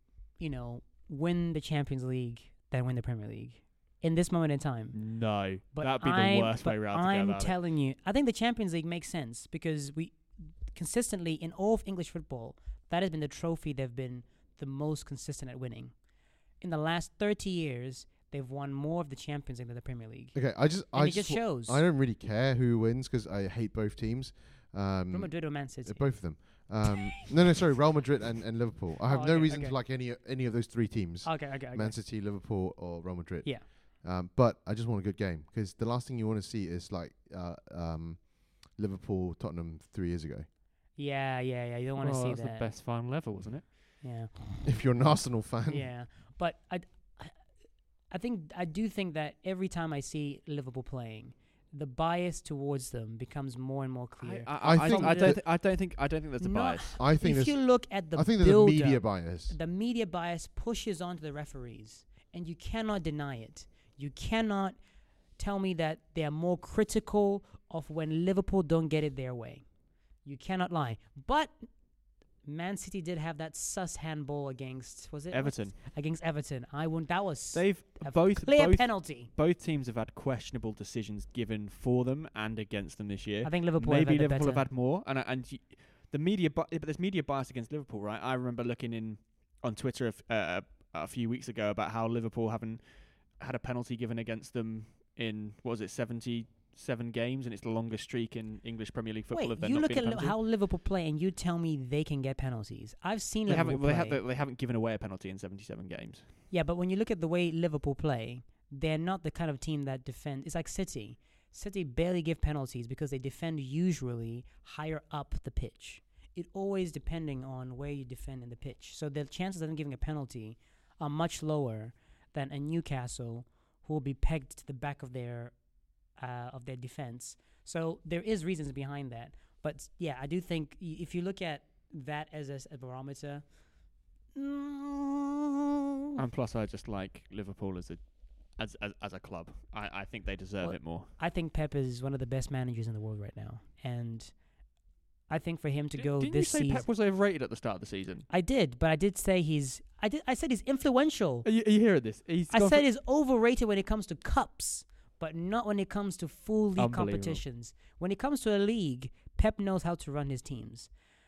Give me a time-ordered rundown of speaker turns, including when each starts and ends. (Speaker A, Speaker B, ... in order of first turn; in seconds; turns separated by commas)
Speaker A: 0.4-5.0, Speaker B: 4.9-7.5, Speaker A: 5.7-15.9, Speaker A: 16.6-20.4, Speaker C: 20.3-40.5, Speaker A: 20.9-21.8, Speaker A: 25.1-26.1, Speaker A: 29.1-29.8, Speaker A: 31.2-31.9, Speaker A: 41.0-42.7, Speaker B: 42.0-43.7, Speaker A: 44.0-44.7, Speaker C: 44.6-45.9, Speaker A: 45.7-47.4, Speaker A: 48.1-55.4, Speaker B: 54.2-57.0, Speaker C: 54.6-55.4, Speaker A: 56.4-64.8, Speaker C: 57.0-59.5, Speaker A: 65.4-69.6, Speaker A: 70.2-71.5, Speaker A: 72.4-79.3, Speaker B: 75.3-75.8, Speaker B: 77.5-100.4, Speaker A: 83.4-84.7, Speaker A: 99.3-104.2, Speaker B: 103.5-106.2, Speaker A: 106.5-125.5, Speaker A: 126.2-133.4, Speaker A: 134.3-135.4, Speaker B: 136.2-141.1, Speaker A: 140.6-144.3, Speaker A: 145.3-146.8, Speaker B: 146.0-148.3, Speaker A: 148.3-151.5, Speaker B: 151.4-152.8, Speaker A: 152.5-160.9, Speaker B: 156.8-157.4